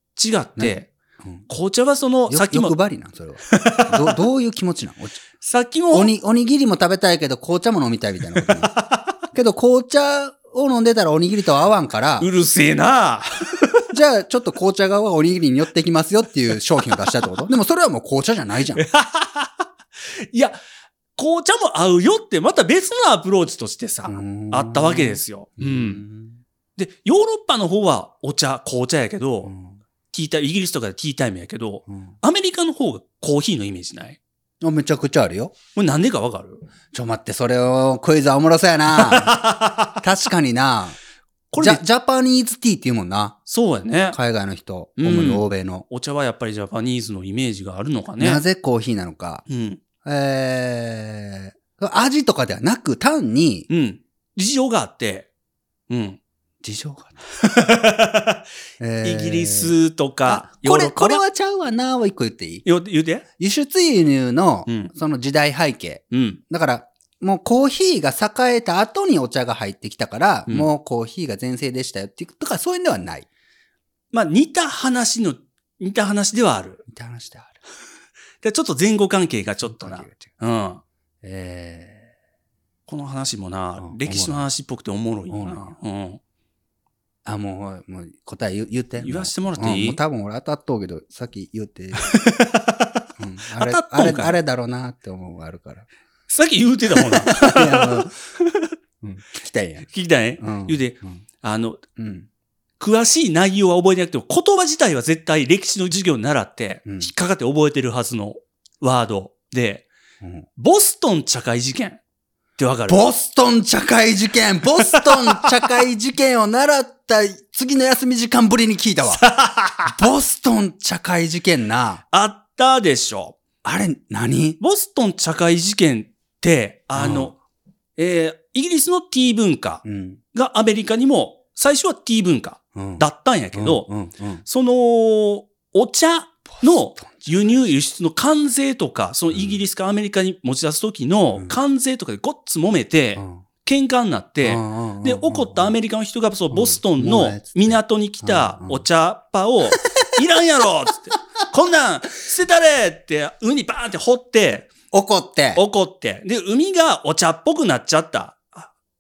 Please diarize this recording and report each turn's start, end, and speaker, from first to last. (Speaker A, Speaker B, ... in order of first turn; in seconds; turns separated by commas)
Speaker A: 0.1-0.9, Speaker B: 0.6-1.5, Speaker A: 1.5-2.8, Speaker B: 2.3-5.2, Speaker A: 3.5-4.2, Speaker A: 5.4-6.1, Speaker B: 5.9-8.7, Speaker A: 8.7-9.1, Speaker B: 9.3-12.3, Speaker A: 12.2-13.8, Speaker B: 13.9-18.9, Speaker A: 18.7-20.6, Speaker A: 21.1-26.0, Speaker B: 24.1-26.4, Speaker A: 26.8-29.5, Speaker B: 29.4-29.8, Speaker A: 30.1-34.2, Speaker B: 31.9-32.1, Speaker B: 34.6-35.5, Speaker A: 35.7-36.7, Speaker B: 36.9-41.0, Speaker A: 38.9-40.0, Speaker A: 41.5-41.8, Speaker B: 41.6-43.4, Speaker A: 43.5-44.2, Speaker B: 44.1-45.9, Speaker A: 45.0-48.4, Speaker B: 48.2-49.4, Speaker A: 49.5-49.8, Speaker B: 50.0-53.7, Speaker A: 53.7-55.3, Speaker A: 55.9-56.2, Speaker B: 56.6-57.2, Speaker A: 57.4-58.5, Speaker B: 58.8-59.7, Speaker A: 59.0-61.2, Speaker B: 60.2-62.6, Speaker A: 62.6-63.2, Speaker B: 63.4-73.3, Speaker A: 64.7-64.9, Speaker A: 66.1-66.4, Speaker A: 74.1-76.8, Speaker B: 76.8-77.6, Speaker A: 78.4-80.8, Speaker B: 79.6-80.3, Speaker B: 81.2-82.1, Speaker A: 82.9-86.2, Speaker B: 83.8-84.5, Speaker B: 85.3-85.7, Speaker B: 87.2-92.2, Speaker A: 89.0-90.0, Speaker A: 91.9-94.3, Speaker B: 93.2-95.9, Speaker A: 96.3-98.7, Speaker B: 97.0-98.1, Speaker B: 99.0-99.9, Speaker A: 99.8-101.8, Speaker B: 100.4-101.2, Speaker B: 102.0-102.3, Speaker A: 102.8-109.9, Speaker B: 106.8-107.1, Speaker B: 110.2-110.5, Speaker A: 110.6-112.0, Speaker A: 112.6-113.0, Speaker B: 112.9-119.2, Speaker A: 114.8-115.4, Speaker A: 119.2-119.9, Speaker B: 119.8-122.0, Speaker A: 122.1-123.4, Speaker B: 123.6-124.6, Speaker A: 124.6-127.4, Speaker B: 126.9-127.3, Speaker A: 128.0-133.9, Speaker B: 129.8-130.2, Speaker B: 132.7-134.4, Speaker A: 134.4-154.7, Speaker B: 136.5-137.8, Speaker B: 139.3-139.6, Speaker B: 143.2-143.4, Speaker B: 144.4-145.7, Speaker B: 146.5-148.8, Speaker B: 154.9-155.6, Speaker A: 155.5-158.7